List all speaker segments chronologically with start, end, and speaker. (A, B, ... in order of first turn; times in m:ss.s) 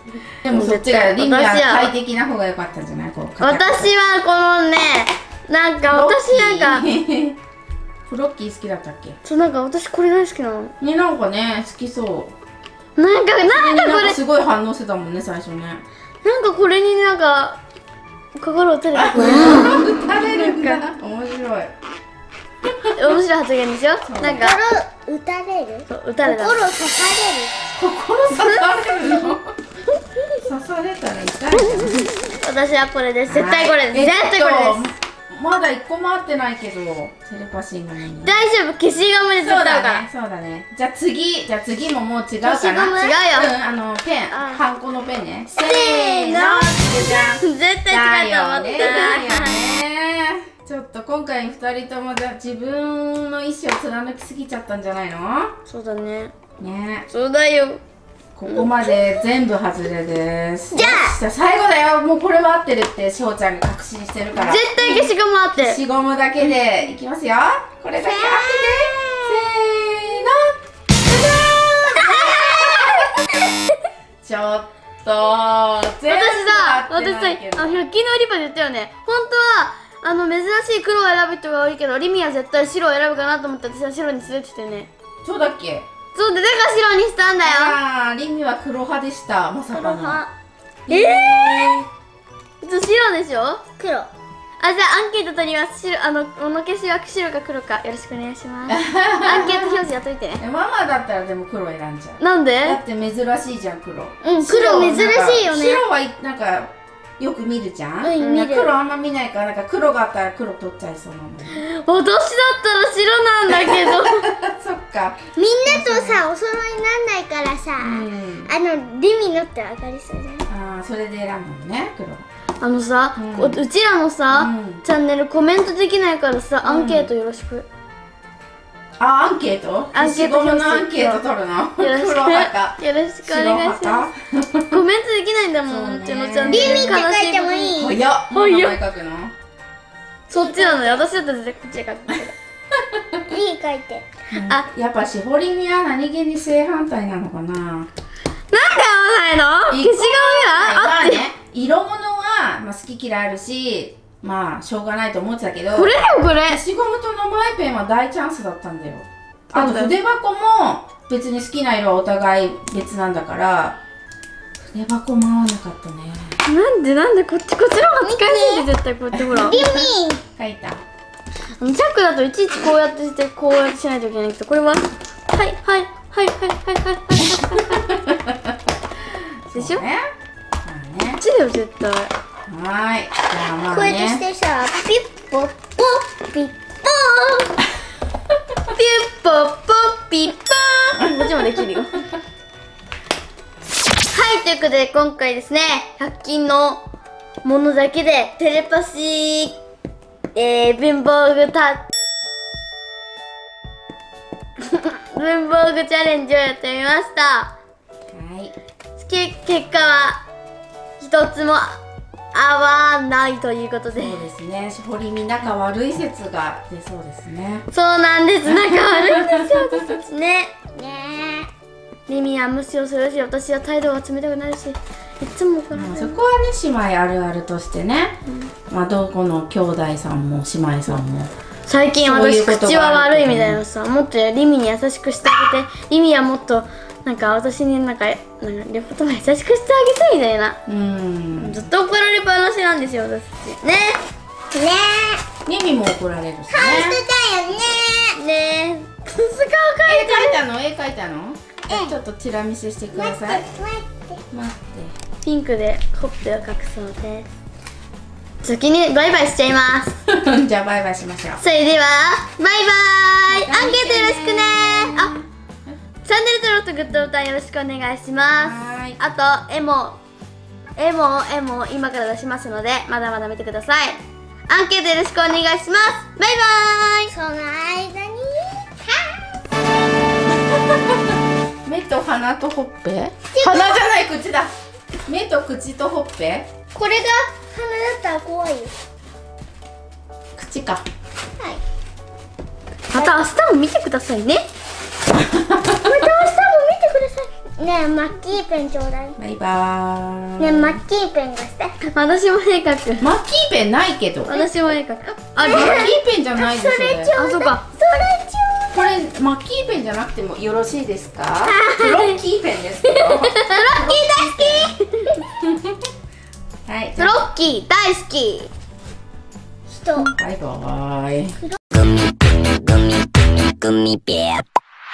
0:00.4-0:03.9 A
0:00.4-0:01.9 B
0:03.4-0:06.9 B
0:05.9-0:07.4 A
0:08.1-0:09.2 A
0:09.2-0:10.7 B
0:10.8-0:12.3 A
0:13.0-0:14.2 B
0:13.4-0:15.8 A
0:16.2-0:17.6 B
0:18.4-0:20.8 B
0:18.9-0:21.7 A
0:19.1-0:19.8 C
0:22.9-0:24.6 B
0:24.0-0:24.4 A
0:24.2-0:27.5 C
0:25.9-0:26.6 B
0:27.7-0:29.5 A
0:28.4-0:28.7 B
0:30.4-0:32.1 A
0:32.3-0:34.8 B
0:33.3-0:38.3 A
0:38.2-0:40.0 B
0:39.4-0:55.5 A
0:42.4-0:43.5 B
0:44.3-0:44.6 B
0:45.6-0:49.6 B
0:55.7-0:56.3 B
0:56.6-0:57.1 A
0:57.1-0:57.8 B
0:58.3-1:10.5 A
1:00.7-1:01.2 C
1:04.4-1:05.8 B
1:08.0-1:09.4 C
1:11.2-1:13.0 A
1:12.0-1:12.9 B
1:12.1-1:12.8 C
1:14.2-1:17.8 A
1:16.0-1:24.9 B
1:25.2-1:25.9 A
1:26.1-1:27.8 B
1:27.4-1:30.2 A
1:29.7-1:30.3 C
1:30.9-1:31.8 A
1:30.9-1:31.8 B
1:32.6-1:33.6 B
1:33.8-1:34.1 C
1:34.6-1:40.4 B
1:38.7-1:39.8 A
1:40.4-1:51.6 A
1:42.2-1:42.8 B
1:44.3-1:45.5 B
1:44.4-1:45.8 C
1:48.0-1:48.7 C
1:48.2-1:48.4 B
1:51.5-1:54.3 B
1:53.5-1:56.2 A
1:55.4-2:00.5 C
1:57.8-1:58.5 A
2:00.5-2:02.2 A
2:02.6-2:07.6 B
2:03.2-2:03.6 A
2:04.3-2:04.8 A
2:06.6-2:07.1 A
2:09.0-2:14.8 A
2:09.9-2:11.2 B
2:11.8-2:14.1 B
2:14.7-2:17.7 B
2:15.6-2:17.0 A
2:16.5-2:18.0 C
2:17.8-2:19.3 A
2:18.3-2:18.8 B
2:20.3-2:21.1 C
2:20.3-2:22.3 B
2:23.2-2:24.1 C
2:24.3-2:27.9 A
2:28.5-2:31.2 B
2:29.7-2:35.9 A
2:35.7-2:36.6 B
2:36.5-2:43.8 A
2:39.5-2:39.9 B
2:44.6-2:46.4 A
2:46.4-2:49.6 B
2:48.0-2:48.7 C
2:49.1-2:49.8 A
2:49.4-2:50.2 C
2:50.4-2:50.8 A
2:51.6-2:57.8 B
2:57.4-2:58.4 A
2:59.4-3:00.0 A
2:59.5-2:59.8 B
3:00.6-3:01.2 A
3:01.2-3:02.1 B
3:02.5-3:04.2 A
3:03.7-3:07.5 C
3:08.7-3:12.0 B
3:11.0-3:11.3 A
3:14.1-3:16.8 B
3:17.4-3:19.6 B
3:20.3-3:21.8 B
3:24.6-3:27.5 B
3:28.1-3:28.6 A
3:29.0-3:30.2 B
3:31.0-3:31.8 B
3:32.3-3:34.2 B
3:33.9-3:37.7 A
3:37.7-3:40.6 B
3:38.4-3:39.7 A
3:40.7-3:41.5 C
3:42.1-3:46.2 B
3:45.7-3:48.2 A
3:48.7-3:51.3 A
3:51.7-4:00.6 B
3:52.0-3:53.6 A
4:00.7-4:01.6 A
4:01.4-4:04.0 B
4:04.5-4:05.2 C
4:05.4-4:07.0 A
4:06.5-4:08.2 C
4:08.2-4:10.4 B
4:09.8-4:13.5 A
4:11.7-4:12.0 C
4:12.9-4:14.2 C
4:14.3-4:14.9 A
4:15.2-4:17.3 B
4:18.4-4:20.0 B
4:20.1-4:21.4 A
4:21.4-4:25.1 B
4:23.3-4:25.8 A
4:26.0-4:30.0 B
4:28.4-4:29.0 A
4:30.8-4:37.1 B
4:37.1-4:39.2 C
4:41.6-4:44.6 A
4:43.3-4:43.9 C
4:45.1-4:46.5 A
4:46.8-4:48.7 C
4:50.4-4:50.8 A
4:52.9-4:54.4 B
4:52.9-4:53.2 C
4:55.1-4:55.9 A
4:55.8-4:59.2 C
4:59.2-5:00.8 A
5:00.4-5:01.8 C
5:01.8-5:03.1 B
5:03.0-5:04.4 A
5:04.3-5:05.9 B
5:05.4-5:08.8 C
5:05.4-5:07.1 A
5:07.2-5:07.6 B
5:08.7-5:14.8 A
5:11.4-5:12.1 C
5:13.2-5:15.1 B
5:13.8-5:14.8 C
5:15.4-5:15.8 A
5:16.6-5:17.2 A
5:17.0-5:18.5 B
5:19.7-5:20.1 C
5:20.1-5:21.4 A
5:21.7-5:24.4 D